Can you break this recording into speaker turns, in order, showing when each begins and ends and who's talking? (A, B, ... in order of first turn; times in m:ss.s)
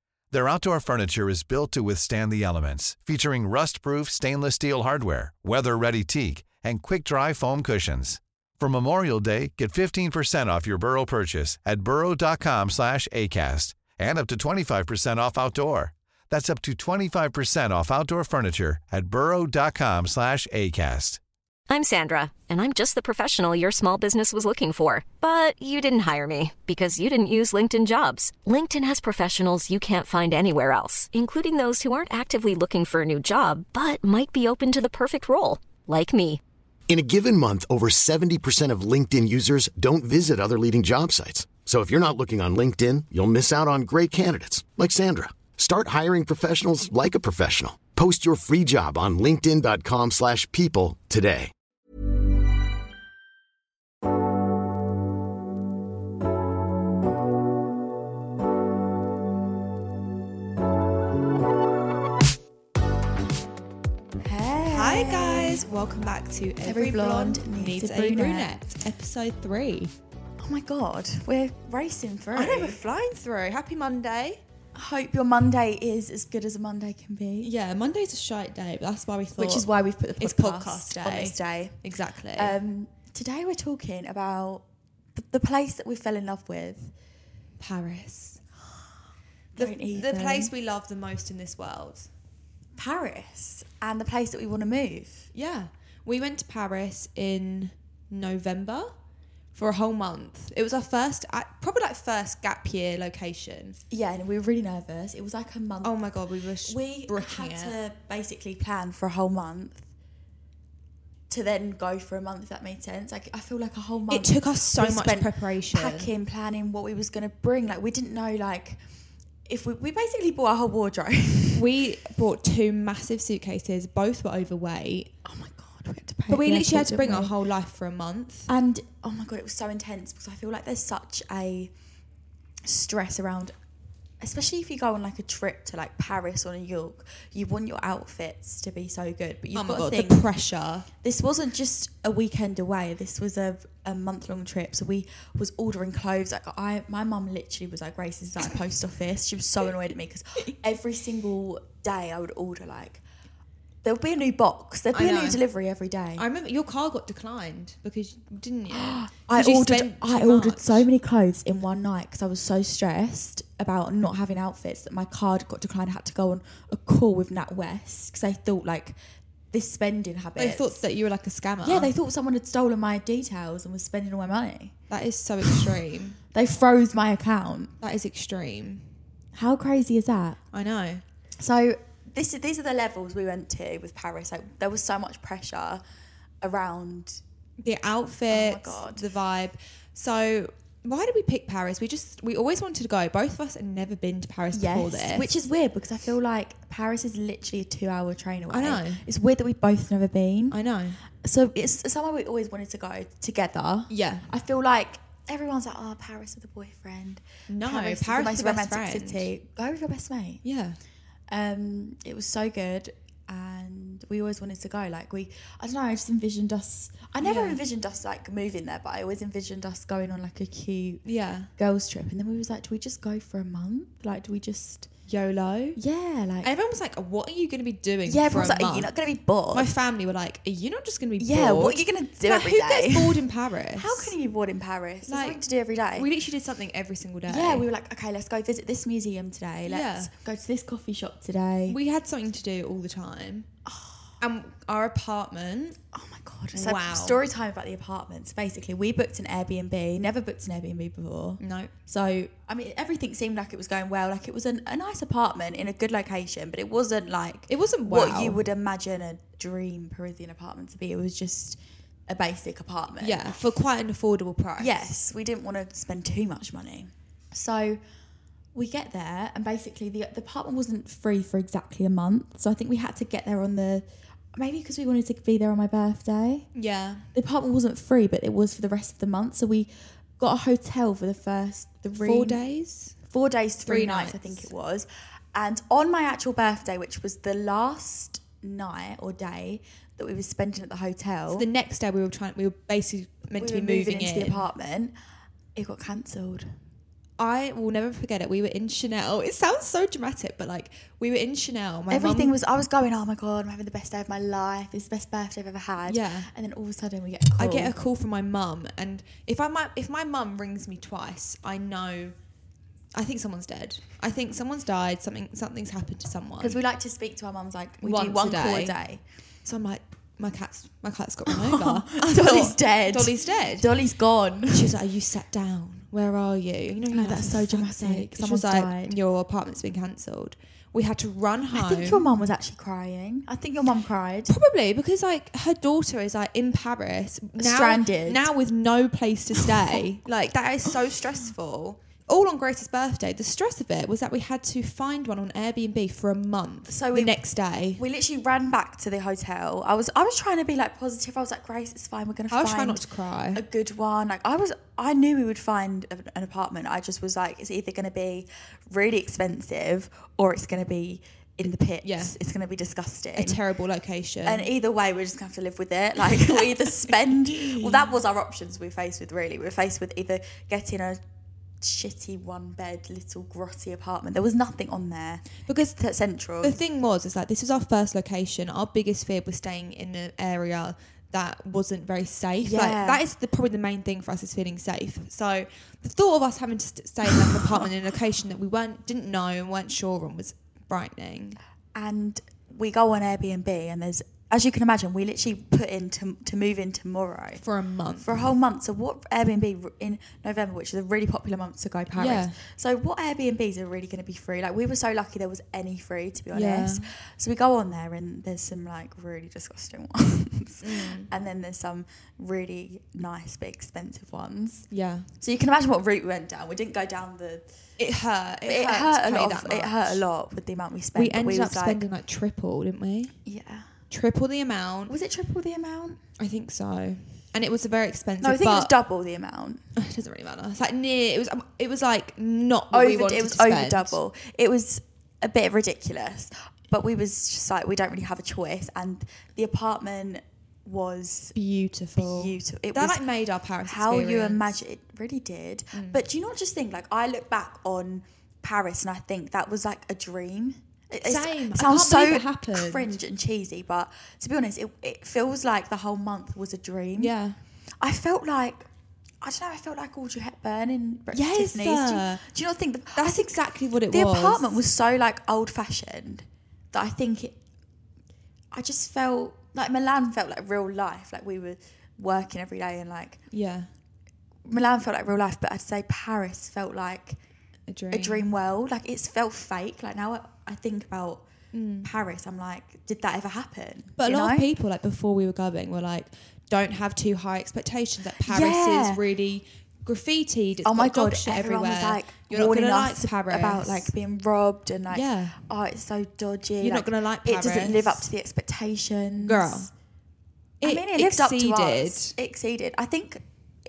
0:00.3-0:21.2 A
0:21.7-0:36.4 B
0:36.9-0:51.5 C
1:04.2-1:05.6 D
1:04.7-1:09.9 E
1:06.6-1:08.6 D
1:10.4-1:12.8 D
1:12.3-1:14.4 E
1:14.8-1:17.5 D
1:17.4-1:22.6 E
1:19.4-1:21.8 D
1:22.3-1:24.6 D
1:25.1-1:26.9 D
1:27.6-1:28.4 E
1:29.6-1:30.5 D
1:29.6-1:32.1 E
1:32.8-1:35.3 D
1:35.3-1:38.9 E
1:39.5-1:43.8 E
1:43.9-1:46.0 D
1:45.8-1:47.8 E
1:46.7-1:49.8 D
1:51.3-1:58.8 D
1:54.1-1:56.1 E
1:59.5-2:01.6 D
2:01.5-2:05.1 E
2:05.2-2:07.4 D
2:06.3-2:08.5 E
2:08.5-2:11.7 D
2:12.6-2:13.6 D
2:14.2-2:20.3 D
2:19.5-2:20.9 E
2:21.0-2:33.0 D
2:33.8-2:36.2 D
2:34.9-2:35.4 E
2:36.2-2:40.9 E
2:38.7-2:48.9 D
2:49.5-2:50.8 D
2:50.4-2:51.9 E
2:51.6-2:54.7 D
2:54.9-2:56.2 E
2:56.3-2:57.7 D
2:57.8-2:58.9 E
2:59.4-3:00.4 D
3:00.5-3:01.0 E
3:01.4-3:05.8 D
3:06.4-3:07.2 D
3:07.6-3:15.3 E
3:08.3-3:09.0 D
3:14.5-3:20.6 D
3:18.5-3:19.0 E
3:20.5-3:21.0 E
3:21.2-3:30.4 D
3:23.9-3:24.3 E
3:27.5-3:29.3 E
3:30.4-3:30.8 E
3:31.3-3:41.0 D
3:37.2-3:37.6 E
3:41.0-3:41.5 E
3:41.6-3:44.9 D
3:45.1-3:45.8 E
3:45.8-3:46.5 D
3:46.4-3:48.9 E
3:48.1-3:49.7 D
3:49.5-3:54.1 E
3:51.2-3:53.2 D
3:53.8-3:56.1 D
3:55.1-3:55.4 E
3:55.9-3:57.7 E
3:57.3-4:01.8 D
3:59.7-4:00.1 E
4:01.7-4:03.5 E
4:03.6-4:04.0 D
4:04.2-4:05.8 E
4:05.9-4:23.3 D
4:06.6-4:07.2 E
4:11.4-4:11.7 E
4:17.5-4:18.4 E
4:23.0-4:24.9 E
4:24.6-4:27.8 D
4:28.6-4:36.5 D
4:36.6-4:37.1 E
4:37.1-4:42.4 D
4:42.0-4:42.9 E
4:43.1-4:51.5 D
4:43.6-4:44.5 E
4:51.3-4:54.5 E
4:53.4-4:54.9 D
4:55.6-4:56.6 D
4:57.2-5:02.4 E
5:01.9-5:07.8 D
5:05.9-5:06.3 E
5:07.4-5:12.2 E
5:12.9-5:16.6 E
5:16.4-5:19.0 D
5:17.8-5:18.8 E
5:19.4-5:23.7 E
5:21.3-5:24.7 D
5:24.5-5:32.1 E
5:26.9-5:29.0 D
5:31.5-5:34.3 D
5:34.3-5:47.8 E
5:37.4-5:38.3 D
5:46.7-5:47.2 D
5:47.8-5:52.8 D
5:52.3-5:53.4 E
5:53.3-6:03.4 D
6:01.8-6:02.2 E
6:03.2-6:04.5 E
6:04.2-6:11.0 D
6:06.1-6:07.9 E
6:11.6-6:16.6 D
6:15.5-6:15.8 E
6:16.4-6:31.4 E
6:22.4-6:23.0 D
6:31.8-6:37.4 D
6:37.4-6:38.2 E
6:38.0-6:54.7 D
6:41.9-6:42.4 E
6:46.3-6:46.9 E
6:50.6-6:51.1 E
6:54.7-6:55.1 E
6:55.2-6:57.4 D
6:57.8-7:00.0 E
6:58.5-7:01.8 D
7:00.9-7:03.2 E
7:03.2-7:03.7 D
7:03.9-7:04.9 E
7:04.9-7:06.0 D
7:06.2-7:08.8 E
7:08.2-7:09.6 D
7:09.8-7:14.0 E
7:12.7-7:21.4 D
7:21.4-7:24.5 E
7:21.9-7:23.0 D
7:23.7-7:37.1 D
7:25.7-7:26.0 E
7:31.0-7:32.9 E
7:37.0-7:37.4 E
7:37.8-7:38.7 D
7:39.2-7:43.4 D
7:41.1-7:42.2 E
7:43.0-7:44.6 E
7:43.9-7:47.4 D
7:48.5-7:53.2 D
7:53.3-7:53.7 E
7:54.5-7:57.2 D
7:57.7-7:58.3 E
7:57.9-8:01.2 D
8:01.5-8:01.9 E
8:01.8-8:04.5 D
8:04.0-8:13.9 E
8:08.2-8:09.0 D
8:10.6-8:19.7 D
8:14.9-8:15.4 E
8:16.6-8:18.1 E
8:19.2-8:19.7 E
8:20.6-8:22.2 E
8:20.6-8:23.2 D